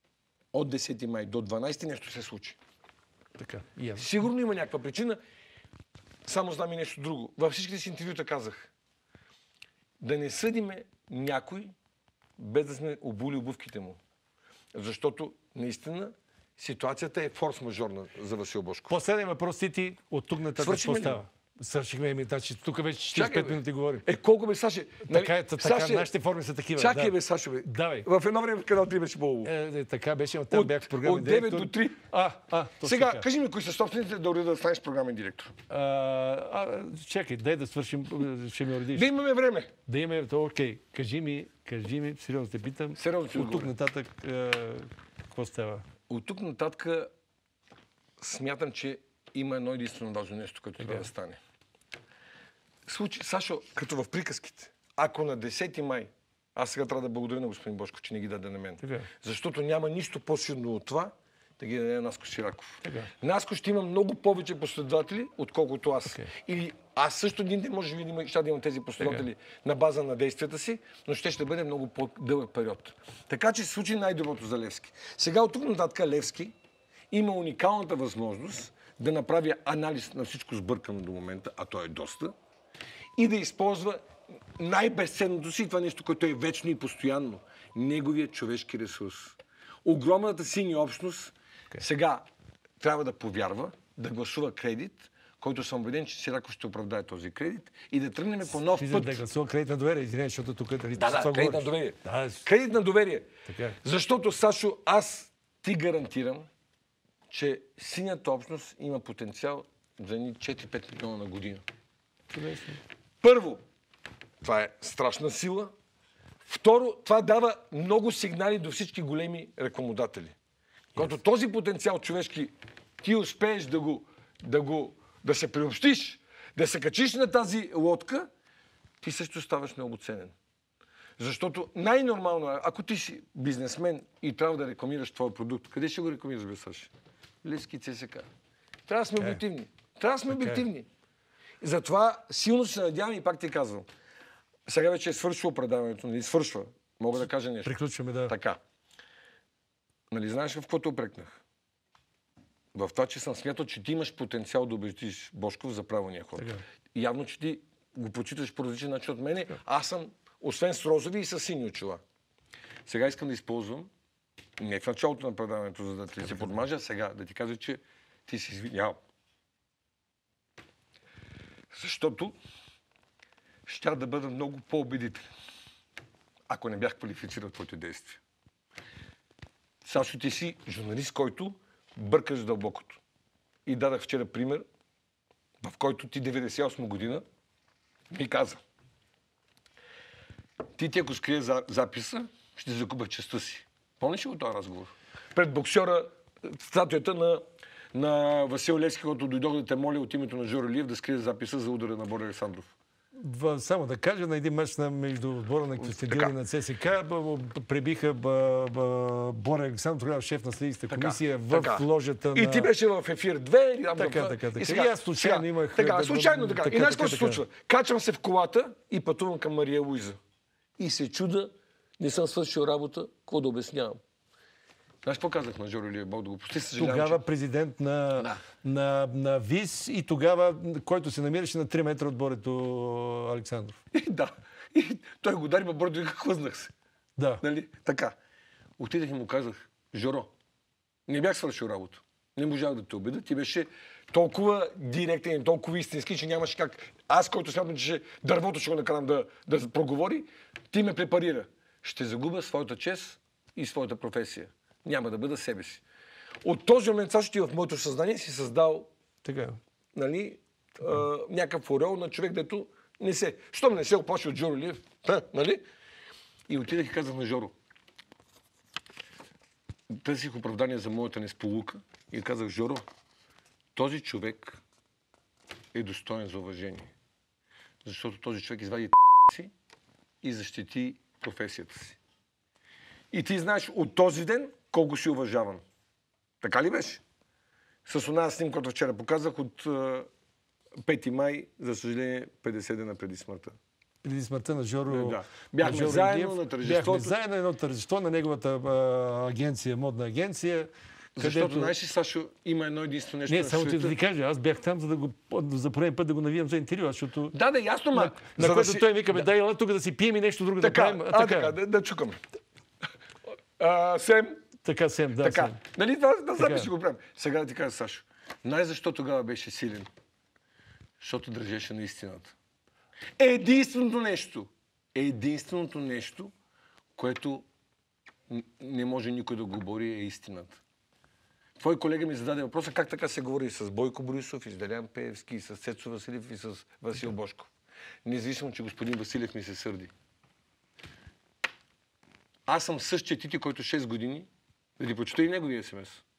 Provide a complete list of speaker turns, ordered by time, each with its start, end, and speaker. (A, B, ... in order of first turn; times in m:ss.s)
0:00.5-0:02.6 A
0:03.4-0:04.1 B
0:04.0-0:05.2 A
0:06.2-0:08.7 A
0:10.0-0:11.7 A
0:12.4-0:14.0 A
0:14.7-0:19.0 A
0:18.9-0:24.0 B
0:20.6-0:21.2 A
0:23.1-0:26.1 A
0:25.1-0:28.1 B
0:26.8-0:29.5 A
0:29.4-0:33.2 B
0:30.5-0:32.0 A
0:32.8-0:35.5 A
0:35.7-0:39.1 B
0:38.9-0:39.7 A
0:39.9-0:45.8 B
0:43.0-0:43.7 A
0:46.1-0:47.1 A
0:48.2-0:51.4 A
0:50.8-0:51.1 B
0:52.9-1:16.5 A
0:58.8-0:59.1 B
1:02.8-1:03.1 B
1:06.1-1:06.3 B
1:09.0-1:09.2 B
1:17.1-1:22.3 A
1:23.2-1:24.0 A
1:24.6-1:32.3 A
1:32.8-1:39.2 A
1:38.7-1:42.4 B
1:41.0-1:43.3 A
1:43.5-1:43.8 B
1:43.8-1:46.5 A
1:47.3-1:51.6 A
1:52.3-1:52.8 B
1:53.2-1:53.6 A
1:54.4-1:55.7 A
1:56.4-2:00.4 A
2:01.0-2:08.3 A
2:09.0-2:10.3 A
2:11.2-2:16.9 A
2:17.4-2:18.3 A
2:18.9-2:20.9 A
2:20.3-2:20.6 B
2:21.6-2:23.9 A
2:24.7-2:27.7 A
2:27.6-2:28.3 B
2:28.3-2:28.6 A
2:30.1-2:31.4 A
2:32.7-2:42.0 A
2:36.4-2:36.6 B
2:42.9-2:43.9 A
2:44.6-2:49.0 A
2:51.7-2:52.4 A
2:53.7-2:55.2 A
2:56.5-2:58.2 A
2:59.8-3:03.0 A
3:03.7-3:04.6 A
3:05.6-3:07.2 A
3:08.1-3:08.6 A
3:10.8-3:17.4 A
3:17.9-3:22.7 A
3:23.2-3:32.7 B
3:25.8-3:26.3 A
3:30.9-3:40.2 A
3:34.0-3:37.4 B
3:40.8-3:44.0 A
3:45.0-3:47.2 A
3:46.8-3:53.8 B
3:53.9-3:56.7 A
3:57.2-3:57.4 B
3:57.4-3:58.2 A
3:58.8-4:00.3 A
4:01.1-4:15.8 A
4:16.4-4:18.9 A
4:19.2-4:19.6 B
4:20.0-4:25.6 A
4:26.5-4:27.5 A
4:29.9-4:32.8 A
4:33.8-4:34.6 A
4:35.7-4:36.9 A
4:37.8-4:39.5 A
4:40.2-4:42.0 A
4:43.1-4:45.6 A
4:46.4-4:47.0 A
4:47.9-4:50.1 A
4:50.8-4:53.6 A
4:54.0-5:01.7 B
4:54.9-4:57.2 A
5:01.2-5:04.0 A
5:03.3-5:07.3 B
5:07.3-5:09.3 A
5:07.9-5:11.6 B
5:10.6-5:12.2 A
5:13.6-5:14.4 A
5:14.6-5:15.6 B
5:15.2-5:19.9 A
5:16.4-5:16.7 B
5:21.0-5:22.4 A
5:23.2-5:26.3 A
5:27.0-5:27.4 A
5:28.3-5:30.6 A
5:31.6-5:37.5 A
5:38.0-5:39.9 A
5:42.5-5:46.0 A